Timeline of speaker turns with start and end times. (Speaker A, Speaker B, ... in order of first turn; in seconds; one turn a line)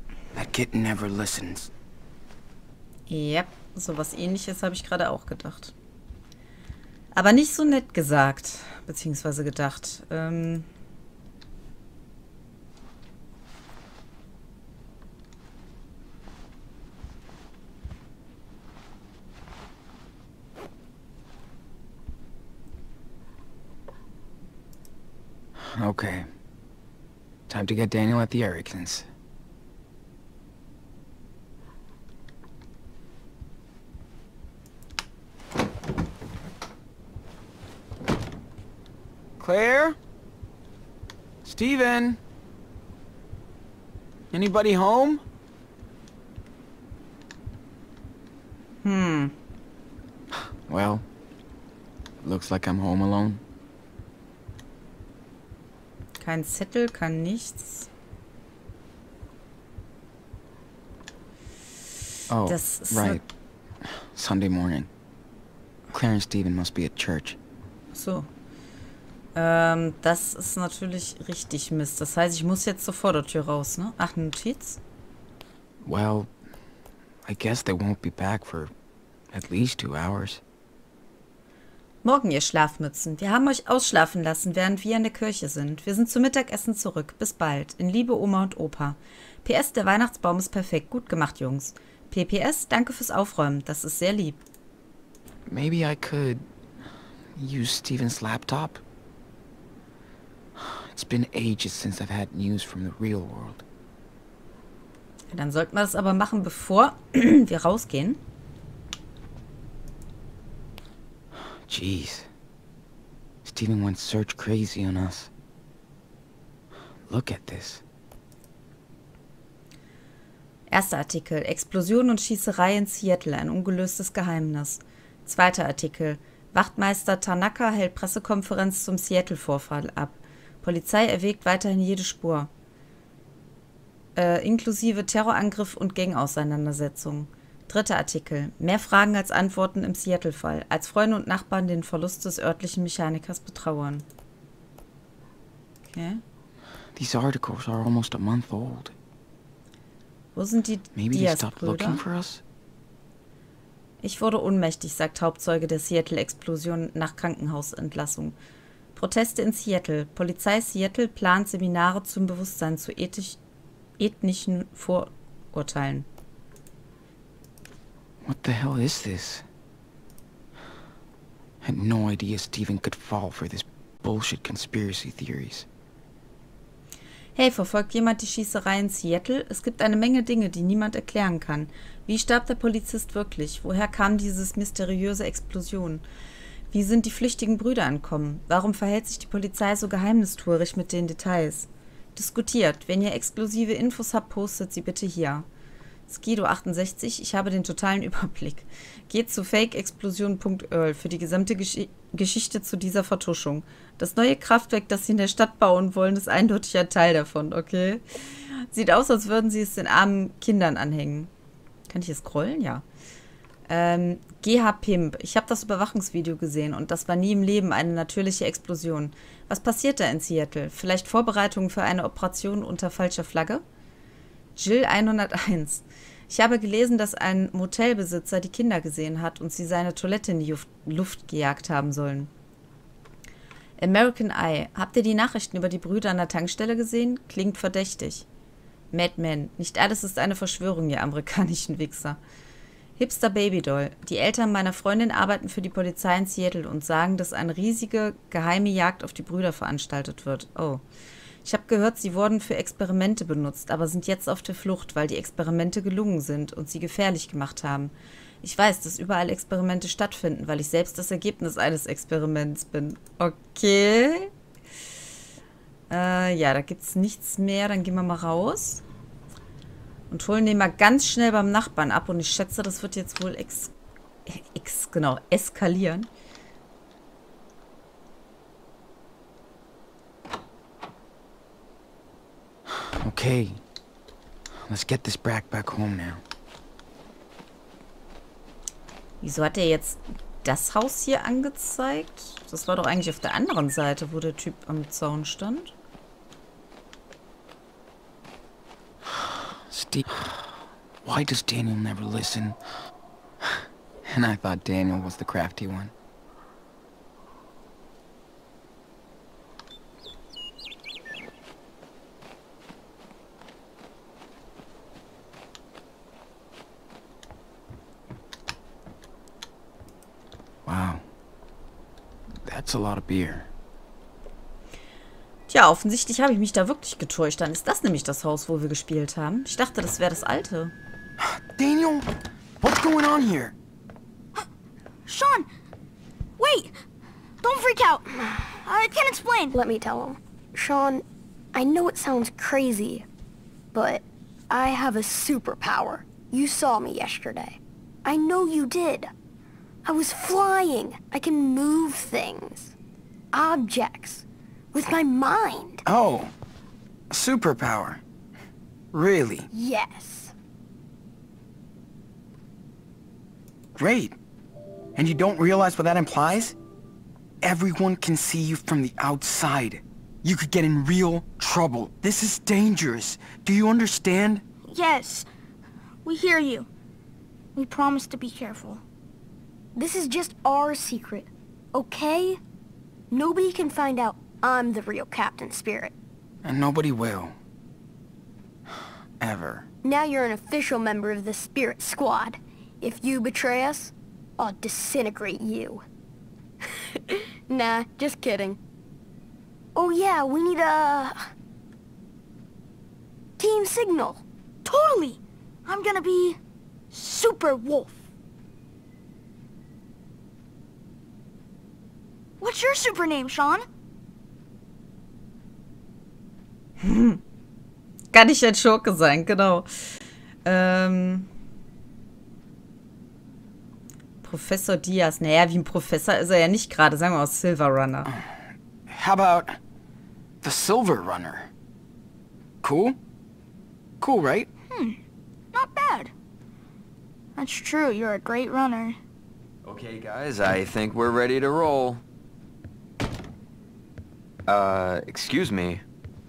Speaker A: 0.3-1.7
Speaker B: 3.1-5.7
Speaker B: 7.1-10.7
Speaker A: 25.6-26.3
Speaker A: 27.5-29.1
Speaker A: 39.4-40.0
Speaker A: 41.4-42.2
Speaker A: 44.3-45.2
Speaker B: 48.8-49.3
Speaker A: 50.7-51.0
Speaker A: 52.2-53.4
Speaker B: 56.2-57.9
Speaker A: 62.3-63.2
Speaker B: 62.5-63.2
Speaker A: 64.1-64.9
Speaker A: 65.9-67.4
Speaker B: 67.9-68.3
Speaker B: 69.3-74.8
Speaker A: 75.8-76.3
Speaker A: 77.3-78.7
Speaker A: 79.3-80.4
Speaker B: 82.0-94.4
Speaker A: 95.5-96.5
Speaker A: 97.4-98.8
Speaker A: 100.6-103.6
Speaker B: 105.3-108.2
Speaker A: 111.7-112.3
Speaker A: 113.5-115.3
Speaker A: 117.1-117.8
Speaker B: 120.7-132.5
Speaker B: 134.2-144.1
Speaker B: 145.9-146.2
Speaker A: 147.0-148.9
Speaker B: 150.3-152.1
Speaker A: 150.9-152.4
Speaker B: 154.0-158.4
Speaker B: 158.9-163.4
Speaker B: 164.0-166.1
Speaker A: 168.2-169.4
Speaker A: 171.6-175.7
Speaker B: 177.3-186.0
Speaker B: 186.7-195.5
Speaker B: 196.1-211.3
Speaker B: 211.9-212.8
Speaker B: 213.7-223.6
Speaker B: 224.6-232.3
Speaker B: 233.8-238.3
Speaker B: 238.9-242.2
Speaker B: 243.0-250.8
Speaker B: 251.4-264.3
Speaker B: 265.9-268.8
Speaker B: 270.1-273.7
Speaker B: 274.3-276.1
Speaker A: 283.0-283.6
Speaker A: 284.7-286.2
Speaker B: 289.2-295.7
Speaker A: 299.7-300.1
Speaker A: 301.0-302.6
Speaker A: 304.1-305.9
Speaker A: 320.7-321.0
Speaker A: 322.4-323.5
Speaker B: 325.5-330.7
Speaker A: 331.2-333.6
Speaker C: 335.1-335.5
Speaker C: 336.4-336.7
Speaker C: 337.4-339.6
Speaker D: 339.5-343.1
Speaker D: 343.7-349.1
Speaker D: 349.9-352.8
Speaker D: 353.3-355.8
Speaker A: 355.9-356.3
Speaker A: 357.1-358.0
Speaker A: 358.9-359.5
Speaker D: 359.5-360.3
Speaker A: 363.8-364.2
Speaker A: 365.0-366.6
Speaker A: 367.4-374.4
Speaker C: 374.7-375.3
Speaker C: 376.1-376.7
Speaker C: 377.6-378.8
Speaker D: 379.8-382.4
Speaker D: 383.1-385.9
Speaker A: 386.4-387.4
Speaker A: 389.2-389.7
Speaker D: 389.8-395.8
Speaker D: 397.0-398.6
Speaker D: 399.8-401.2
Speaker D: 403.4-404.2
Speaker C: 404.6-406.4
Speaker C: 406.9-408.0
Speaker C: 412.4-413.6
Speaker B: 416.8-417.2
Speaker B: 418.1-421.3
Speaker B: 424.2-428.1
Speaker A: 428.9-429.6
Speaker A: 430.4-431.5
Speaker A: 432.6-433.0
Speaker A: 434.0-434.5
Speaker C: 434.7-435.0
Speaker C: 435.5-436.1
Speaker C: 437.4-439.0
Speaker E: 439.6-442.0
Speaker E: 444.5-445.8